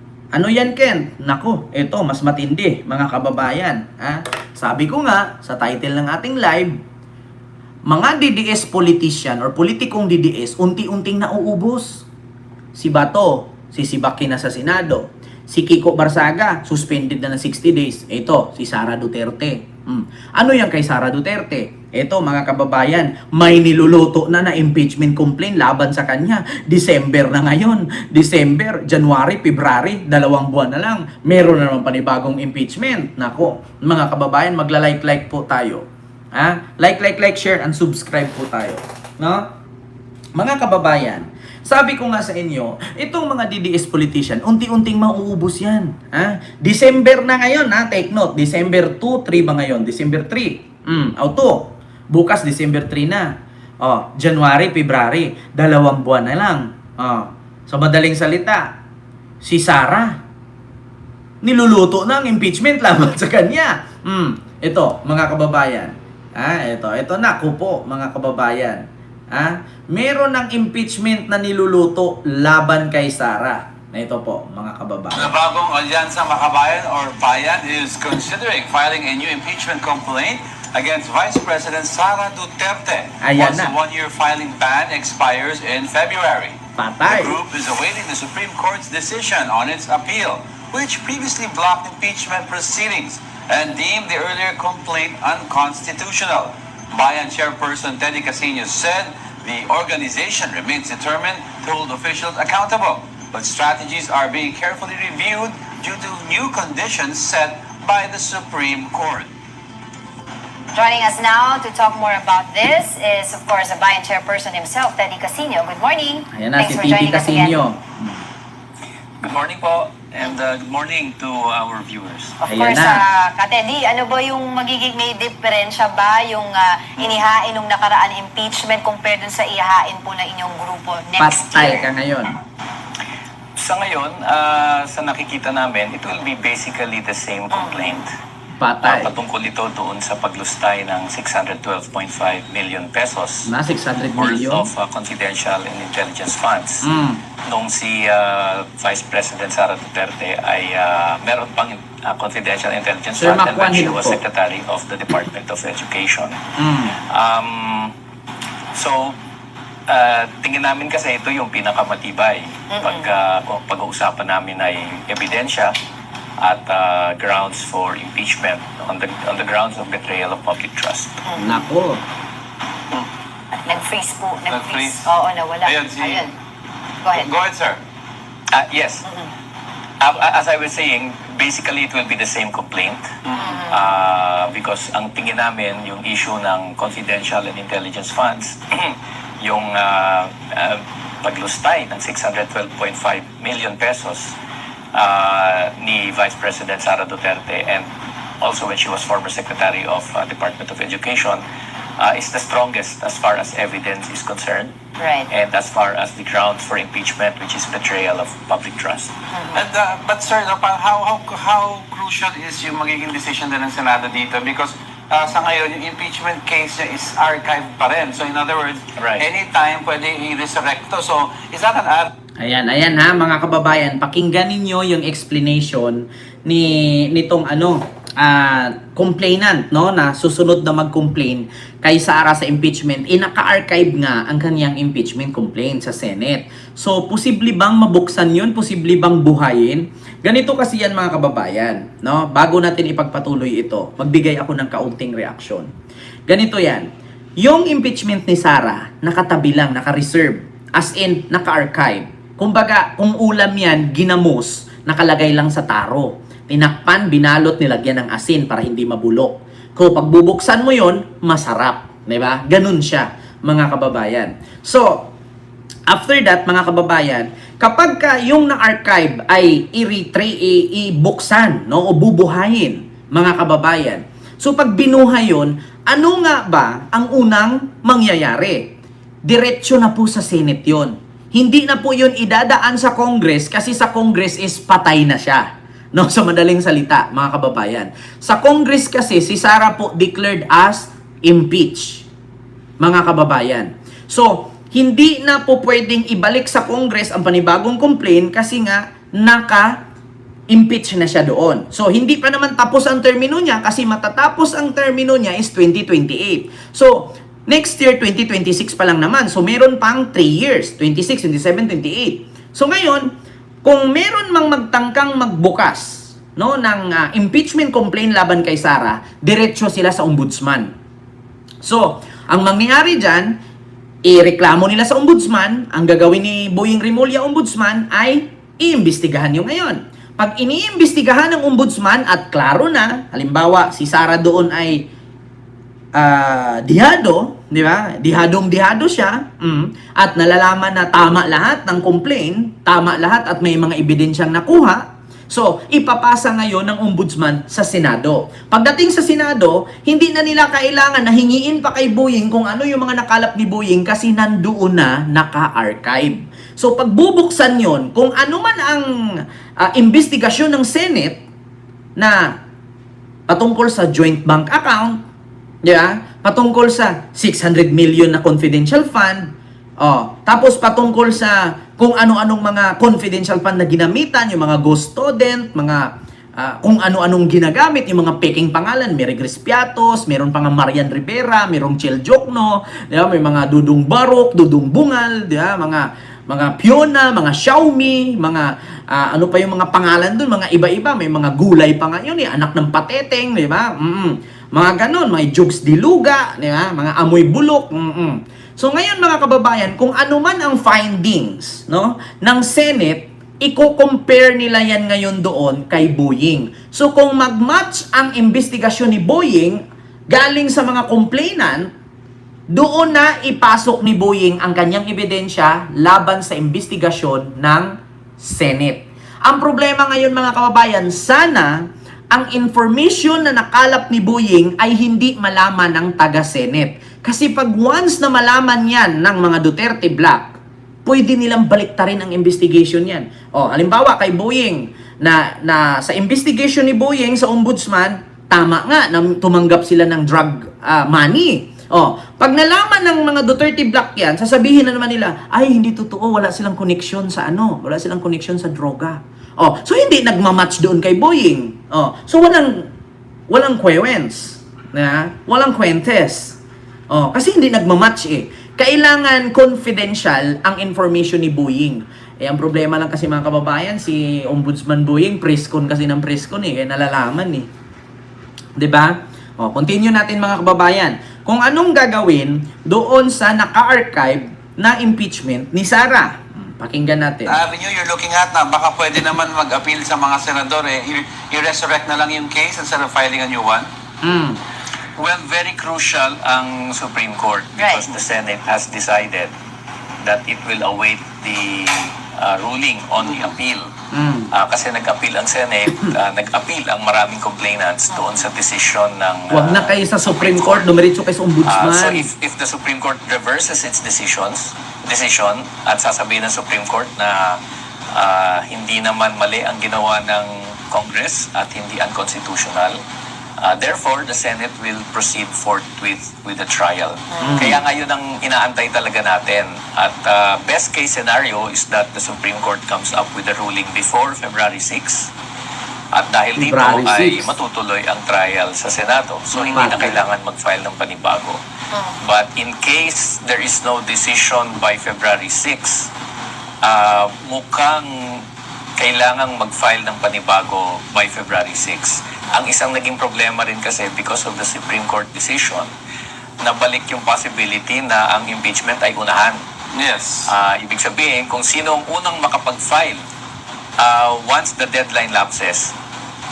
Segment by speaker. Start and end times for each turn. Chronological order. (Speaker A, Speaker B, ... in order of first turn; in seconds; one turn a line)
Speaker A: 0.3-6.7
Speaker A: 7.9-12.1
Speaker A: 12.8-39.5
Speaker A: 40.4-53.3
Speaker A: 53.8-58.7
Speaker A: 59.4-60.1
Speaker A: 61.4-75.3
Speaker B: 75.1-109.3
Speaker A: 83.2-83.7
Speaker A: 86.8-87.4
Speaker C: 110.7-117.6
Speaker A: 116.3-118.1
Speaker D: 119.2-122.3
Speaker C: 122.4-131.9
Speaker A: 122.5-123.0
Speaker A: 131.2-132.3
Speaker D: 133.6-138.1
Speaker C: 137.5-138.0
Speaker A: 138.6-139.1
Speaker D: 138.8-143.5
Speaker A: 143.5-144.7
Speaker D: 144.2-146.9
Speaker A: 146.8-147.2
Speaker D: 147.4-156.4
Speaker A: 153.2-154.2
Speaker A: 156.6-157.0
Speaker D: 157.0-157.9
Speaker D: 158.7-159.2
Speaker D: 159.9-165.8
Speaker C: 162.7-163.1
Speaker D: 166.4-171.2
Speaker C: 171.2-171.6
Speaker A: 171.4-172.0
Speaker C: 173.7-176.3
Speaker B: 174.5-175.1
Speaker B: 175.6-176.3
Speaker C: 177.0-177.3
Speaker B: 177.1-177.8
Speaker D: 178.5-179.1
Speaker D: 180.0-194.4
Speaker B: 183.2-183.6
Speaker C: 183.4-183.9
Speaker D: 194.9-197.9
Speaker D: 198.4-201.4
Speaker D: 202.0-204.7
Speaker C: 205.0-205.3
Speaker D: 205.3-209.1
Speaker C: 209.3-209.6
Speaker B: 209.5-222.1
Speaker D: 219.0-219.2
Speaker A: 222.4-245.7
Speaker A: 246.3-246.9
Speaker A: 247.4-265.1
Speaker A: 265.9-278.7
Speaker A: 279.2-292.1
Speaker A: 292.8-299.8
Speaker A: 300.5-313.1
Speaker A: 313.6-320.7
Speaker A: 321.6-323.4
Speaker A: 324.1-334.9
Speaker A: 335.9-358.9
Speaker A: 359.6-361.2
Speaker A: 362.0-362.3
Speaker A: 363.3-365.0
Speaker A: 365.6-369.3
Speaker A: 369.8-411.7
Speaker A: 412.5-421.5
Speaker A: 422.1-452.7
Speaker A: 453.3-456.4
Speaker A: 456.9-467.5
Speaker A: 468.6-477.4
Speaker B: 477.2-483.7
Speaker A: 484.0-484.4
Speaker B: 485.0-485.5
Speaker D: 485.4-489.3
Speaker C: 487.6-488.0
Speaker D: 490.0-493.7
Speaker A: 493.9-494.3
Speaker D: 494.3-500.7
Speaker C: 497.9-498.2
Speaker A: 499.3-502.1
Speaker D: 501.4-507.4
Speaker D: 507.9-512.8
Speaker D: 513.4-525.1
Speaker C: 517.1-517.4
Speaker A: 517.2-517.6
Speaker D: 525.9-531.4
Speaker A: 526.4-527.3
Speaker A: 529.4-530.0
Speaker D: 531.9-535.9
Speaker D: 536.6-538.2
Speaker D: 538.8-545.7
Speaker D: 546.4-549.4
Speaker B: 549.7-550.3
Speaker D: 550.2-553.0
Speaker D: 553.8-555.7